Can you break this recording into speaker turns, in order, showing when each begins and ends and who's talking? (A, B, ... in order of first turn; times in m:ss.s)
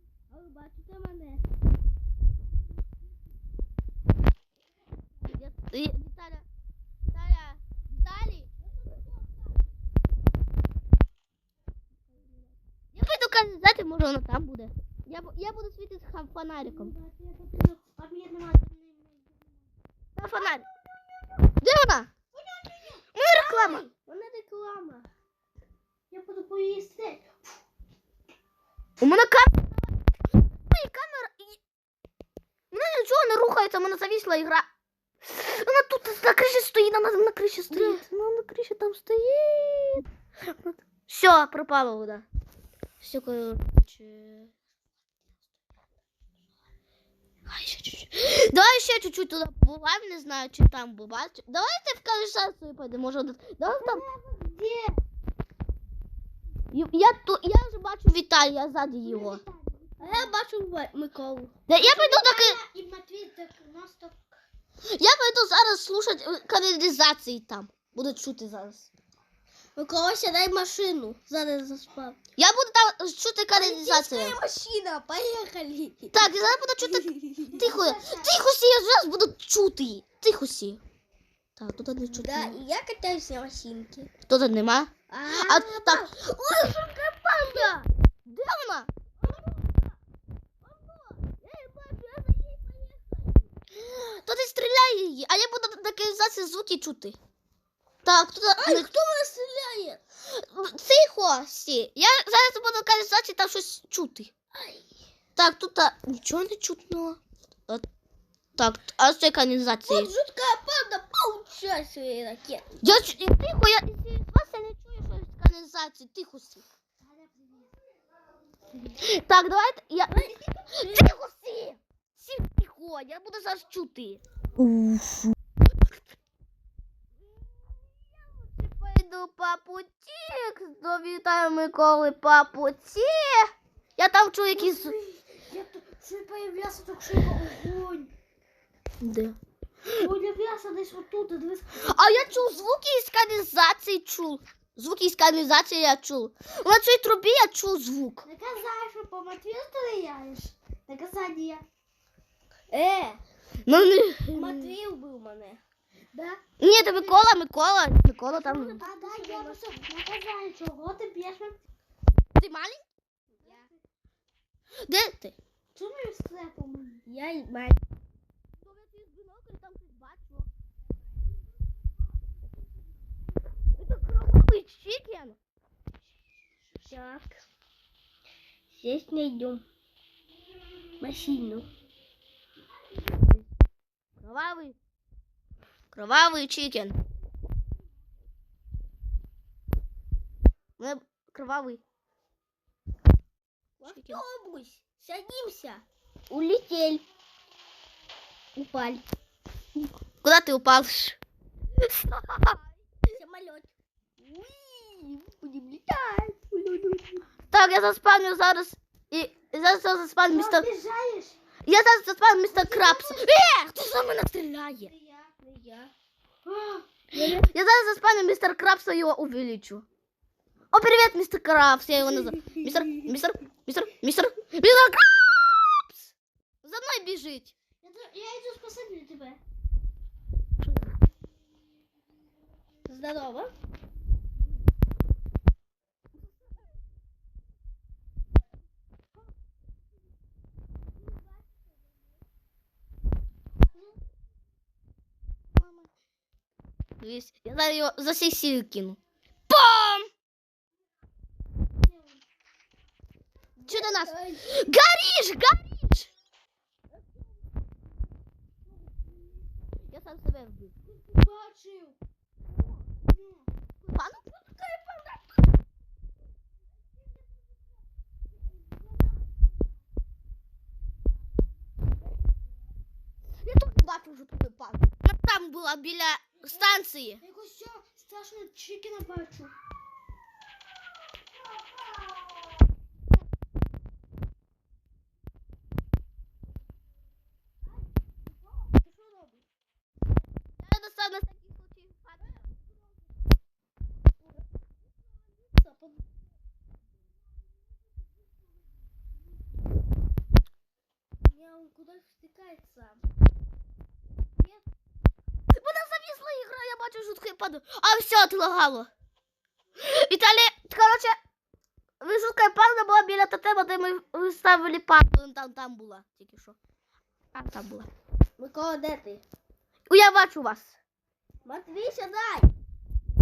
0:00.3-0:01.4 A
0:05.3-0:06.5 B
0:07.1-0:08.5 B
0:12.9-0:16.9 B
0:16.6-0:19.5 C
0:20.2-0:20.6 B
0:20.3-0:21.5 A
0:21.6-0:22.1 B
0:22.4-0:23.0 C
0:23.2-0:23.9 B
0:23.3-0:25.1 A
0:26.1-0:27.4 C
0:29.0-0:29.6 B
0:30.7-0:31.6 B
0:32.7-0:34.7 B
0:35.2-0:42.3 B
0:37.7-0:38.0 A
0:43.0-0:44.5 B
0:47.5-0:54.0 B
0:53.8-0:55.0 C
0:56.7-0:59.4 B
0:59.0-1:00.4 C
1:00.0-1:01.6 A
1:01.7-1:02.6 B
1:01.8-1:04.2 C
1:04.9-1:08.9 B
1:09.8-1:12.2 A
1:12.4-1:14.4 B
1:13.5-1:17.6 A
1:16.1-1:20.8 B
1:17.5-1:18.3 C
1:21.6-1:22.6 B
1:22.1-1:24.1 A
1:24.3-1:26.1 B
1:25.1-1:27.8 A
1:27.3-1:28.9 B
1:29.2-1:29.9 A
1:30.6-1:33.5 A
1:33.7-1:37.2 B
1:38.0-1:38.9 B
1:38.6-1:40.0 A
1:40.3-1:44.3 B
1:44.6-1:44.8 A
1:45.4-1:47.8 B
1:48.6-1:50.1 B
1:49.9-1:52.8 A
1:52.8-1:56.6 B
1:57.0-1:57.7 C
1:59.0-2:05.4 B
2:00.1-2:01.1 A
2:08.6-2:15.0 B
2:14.5-2:18.1 C
2:19.0-2:20.1 B
2:20.0-2:22.3 C
2:21.8-2:28.2 B
2:28.2-2:31.6 C
2:30.9-2:31.6 A
2:32.7-2:33.2 A
2:33.7-2:34.8 B
2:34.3-2:35.6 A
2:36.1-2:37.2 C
2:36.6-2:38.8 B
2:38.4-2:41.6 C
2:38.8-2:39.8 A
2:42.4-2:42.9 B
2:43.4-2:43.8 C
2:44.8-2:45.4 B
2:45.8-2:47.1 C
2:47.1-2:47.8 A
2:48.6-2:50.5 B
2:53.8-2:55.4 B
2:56.8-2:57.4 A
2:58.7-2:59.6 A
3:01.0-3:01.7 A
3:03.1-3:03.5 B
3:04.2-3:04.8 B
3:05.9-3:07.0 B
3:10.8-3:11.8 B
3:13.8-3:17.0 A
3:13.9-3:14.2 B
3:18.6-3:19.0 A
3:19.8-3:21.2 B
3:21.8-3:22.6 B
3:23.1-3:27.2 A
3:27.5-3:30.6 B
3:30.3-3:31.4 C
3:31.7-3:34.9 B
3:32.6-3:33.2 A
3:34.9-3:35.9 A
3:36.4-3:36.9 C
3:37.1-3:39.8 B
3:40.7-3:46.1 B
3:42.1-3:42.9 A
3:46.6-3:47.6 B
3:47.8-3:49.4 C
3:50.6-3:50.9 B
3:52.9-3:53.5 A
4:05.6-4:05.9 B
4:07.0-4:10.1 B
4:11.8-4:12.2 C
4:13.6-4:14.7 A
4:13.6-4:16.1 B
4:19.9-4:20.7 B
4:20.8-4:22.0 C
4:23.0-4:23.5 C
4:23.9-4:24.4 B
4:24.5-4:25.2 A
4:33.4-4:37.2 B
4:37.2-4:39.5 C
4:48.7-4:49.4 A
4:50.6-4:52.4 B
4:55.5-4:56.1 A
5:01.2-5:03.0 A
5:05.5-5:08.9 B
5:09.8-5:11.2 B
5:12.0-5:16.6 B
5:17.3-5:17.9 B
5:18.4-5:19.2 A
5:19.9-5:20.8 B
5:21.4-5:22.5 A